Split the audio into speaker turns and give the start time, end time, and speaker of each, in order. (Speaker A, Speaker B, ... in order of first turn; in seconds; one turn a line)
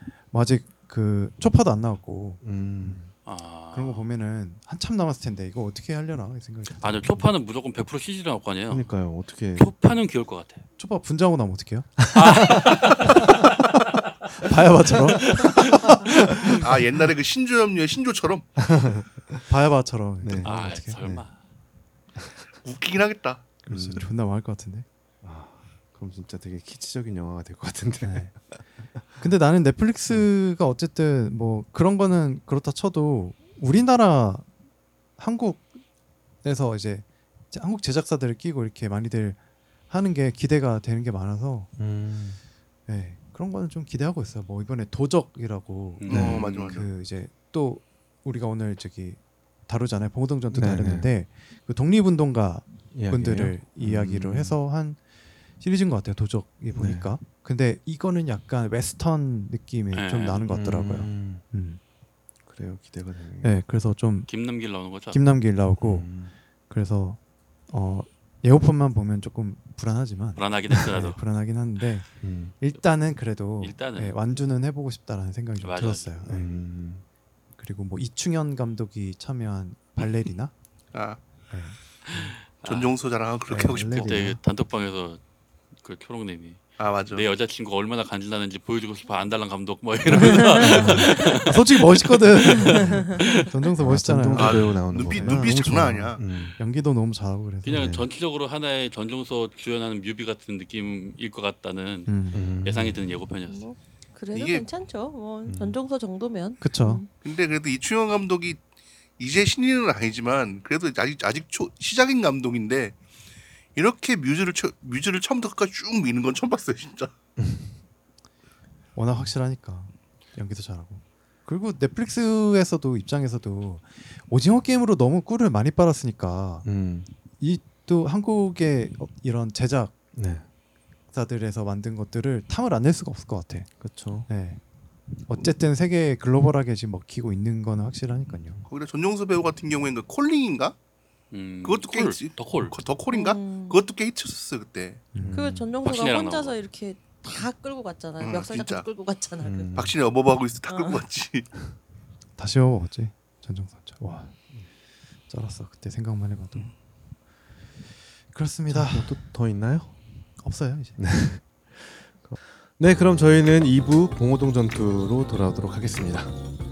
Speaker A: 0.3-3.0
Speaker B: 2.4-3.1
Speaker C: 3.2-4.1
Speaker A: 3.7-7.3
Speaker C: 6.8-8.9
Speaker B: 8.7-9.7
Speaker C: 9.5-10.6
Speaker A: 10.8-13.3
Speaker C: 12.1-13.8
Speaker B: 12.4-12.7
Speaker A: 14.4-16.7
Speaker C: 15.2-15.7
Speaker D: 16.6-18.5
Speaker B: 18.6-19.4
Speaker A: 19.5-21.0
Speaker B: 20.2-21.2
Speaker C: 20.4-21.3
Speaker D: 22.6-23.5
Speaker A: 23.6-24.9
Speaker B: 23.7-24.1
Speaker B: 25.2-29.2
Speaker A: 28.0-28.3
Speaker A: 29.2-34.5
Speaker A: 35.2-35.7
Speaker A: 36.4-41.7
Speaker B: 41.8-42.4
Speaker A: 42.9-55.0
Speaker C: 46.0-46.8
Speaker D: 46.1-46.9
Speaker B: 46.1-46.5
Speaker B: 50.5-51.1
Speaker B: 52.9-54.6
Speaker A: 55.6-61.8
Speaker B: 56.7-57.1
Speaker C: 59.9-60.5
Speaker B: 60.5-61.4
Speaker B: 62.5-63.6
Speaker A: 63.4-64.3
Speaker C: 64.3-65.2
Speaker A: 65.1-66.1
Speaker B: 65.8-66.3
Speaker A: 66.7-67.2
Speaker A: 67.7-76.5
Speaker C: 70.3-71.2
Speaker B: 72.2-72.5
Speaker C: 73.6-74.2
Speaker C: 75.6-76.2
Speaker B: 76.2-77.0
Speaker A: 77.5-80.5
Speaker D: 80.9-81.2
Speaker A: 81.5-82.3
Speaker C: 82.0-82.9
Speaker D: 82.6-84.1
Speaker A: 83.5-84.4
Speaker C: 83.7-85.2
Speaker C: 85.8-93.7
Speaker D: 86.8-87.2
Speaker A: 90.0-97.9
Speaker E: 90.2-91.3
Speaker B: 93.8-96.5
Speaker D: 94.3-96.2
Speaker C: 97.6-103.7
Speaker B: 97.7-98.0
Speaker A: 102.1-102.5
Speaker B: 102.3-103.0
Speaker E: 103.5-107.1
Speaker D: 104.3-104.7
Speaker B: 105.5-105.8
Speaker A: 106.6-107.0
Speaker D: 107.2-108.6
Speaker D: 109.2-113.0
Speaker D: 113.7-117.1
Speaker B: 117.4-117.7
Speaker A: 118.9-126.7
Speaker B: 126.6-127.1
Speaker A: 127.4-129.9
Speaker B: 130.1-130.4
Speaker A: 131.1-133.7
Speaker B: 133.8-134.3
Speaker A: 134.3-134.6
Speaker A: 135.2-138.6
Speaker D: 138.7-140.8
Speaker C: 141.3-142.7
Speaker D: 141.6-145.0
Speaker E: 143.1-143.8
Speaker A: 145.1-145.5
Speaker B: 145.2-145.7
Speaker E: 145.2-149.7
Speaker C: 145.8-146.6
Speaker D: 148.2-148.8
Speaker B: 149.4-150.0
Speaker D: 149.7-151.5
Speaker E: 150.7-151.0
Speaker A: 152.4-154.3
Speaker A: 155.3-156.7
Speaker A: 158.3-159.2
Speaker B: 158.7-160.0
Speaker A: 160.4-161.0
Speaker B: 161.0-166.4